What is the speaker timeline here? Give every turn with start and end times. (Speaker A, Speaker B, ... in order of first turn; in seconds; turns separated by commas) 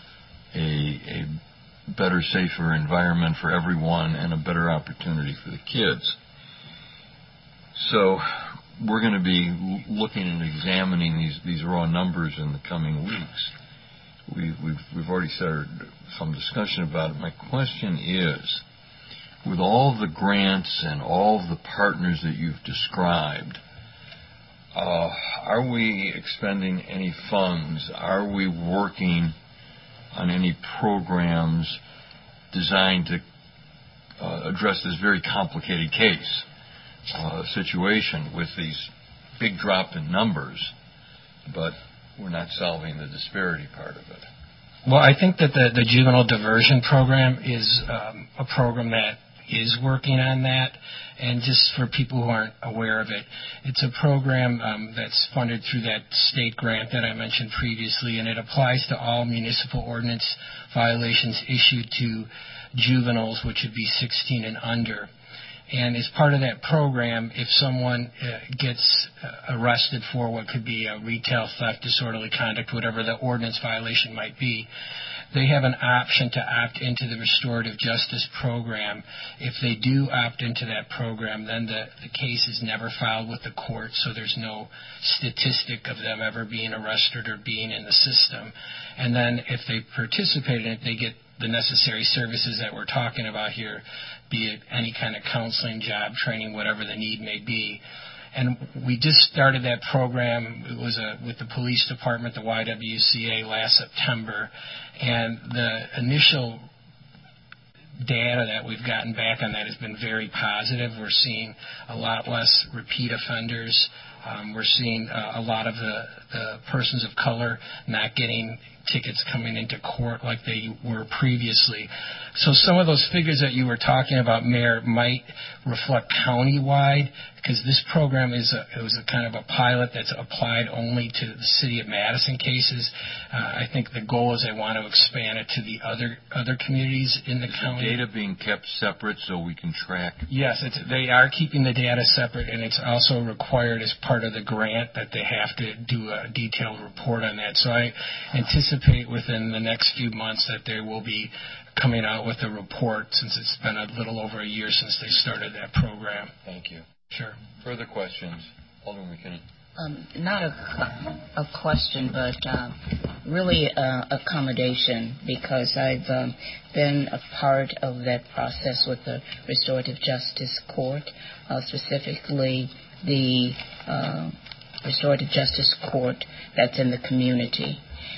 Speaker A: 0.5-1.3, Speaker A: 1.9-6.2, Speaker A: 7.8-13.5, Speaker A: 14.3-18.6, Speaker A: 19.4-23.6, Speaker A: 24.7-29.4, Speaker A: 30.1-31.8, Speaker A: 32.5-33.2, Speaker A: 34.2-36.5, Speaker A: 37.1-40.7, Speaker A: 41.5-44.3, Speaker B: 44.9-65.1, Speaker B: 65.7-74.7, Speaker B: 75.3-97.8, Speaker B: 98.3-106.7, Speaker B: 108.0-138.0, Speaker A: 137.5-140.3, Speaker B: 140.3-156.3, Speaker A: 156.4-156.9, Speaker B: 157.1-157.4, Speaker A: 157.6-159.4, Speaker C: 159.8-177.8